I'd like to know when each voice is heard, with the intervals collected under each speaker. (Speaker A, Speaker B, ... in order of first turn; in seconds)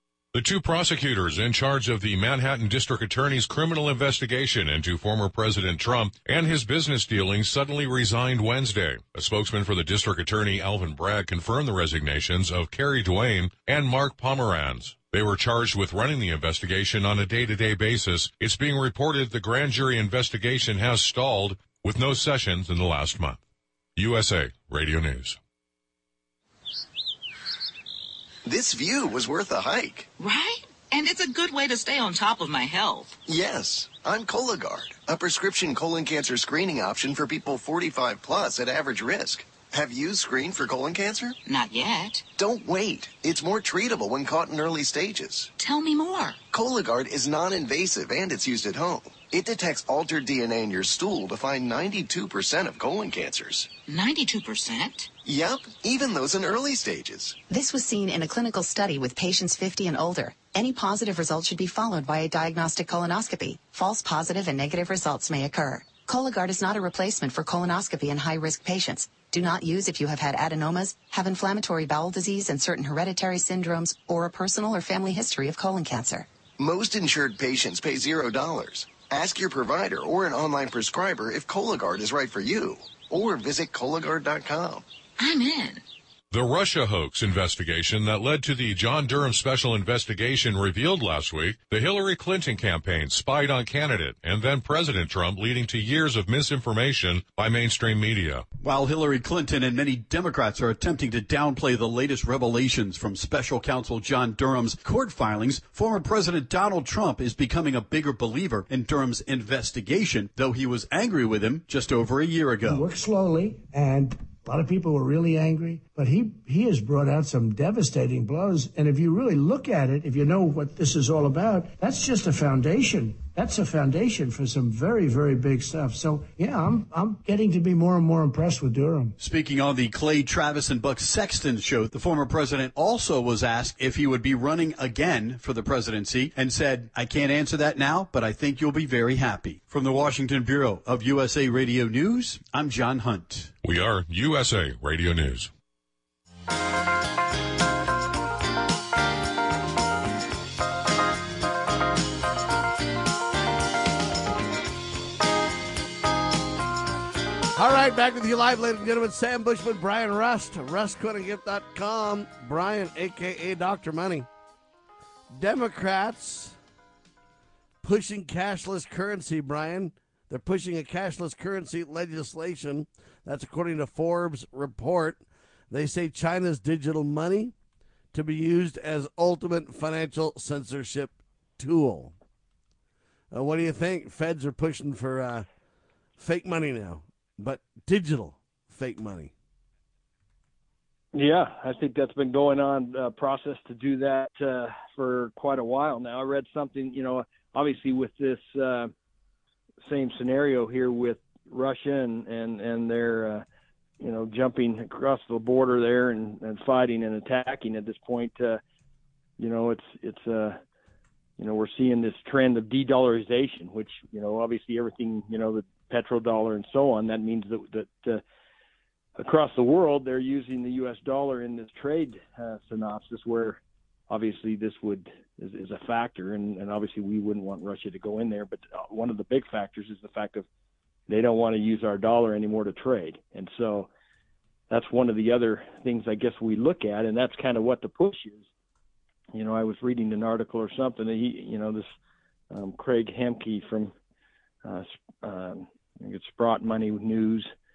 Speaker A: 0.3-23.4, 24.0-25.4, 86.3-98.5, 143.6-145.5
Speaker B: 28.4-30.1, 33.3-41.4, 42.4-45.5, 46.5-53.8, 55.2-57.4, 76.6-84.8
Speaker C: 30.2-33.2, 41.5-42.2, 45.6-46.4, 53.9-55.1, 85.2-85.8
Speaker D: 57.5-76.3
Speaker E: 98.6-112.7, 129.2-143.4
Speaker F: 112.6-129.2
Speaker G: 157.6-164.3, 165.3-166.6, 167.8-177.5, 178.1-182.1, 183.3-185.5, 186.2-189.3
Speaker H: 191.1-198.9, 199.8-203.4, 204.0-208.6, 209.4-210.6, 211.4-218.2, 219.2-230.5, 231.1-233.9, 234.7-238.4, 239.3-241.9, 242.5-243.9, 244.6-247.5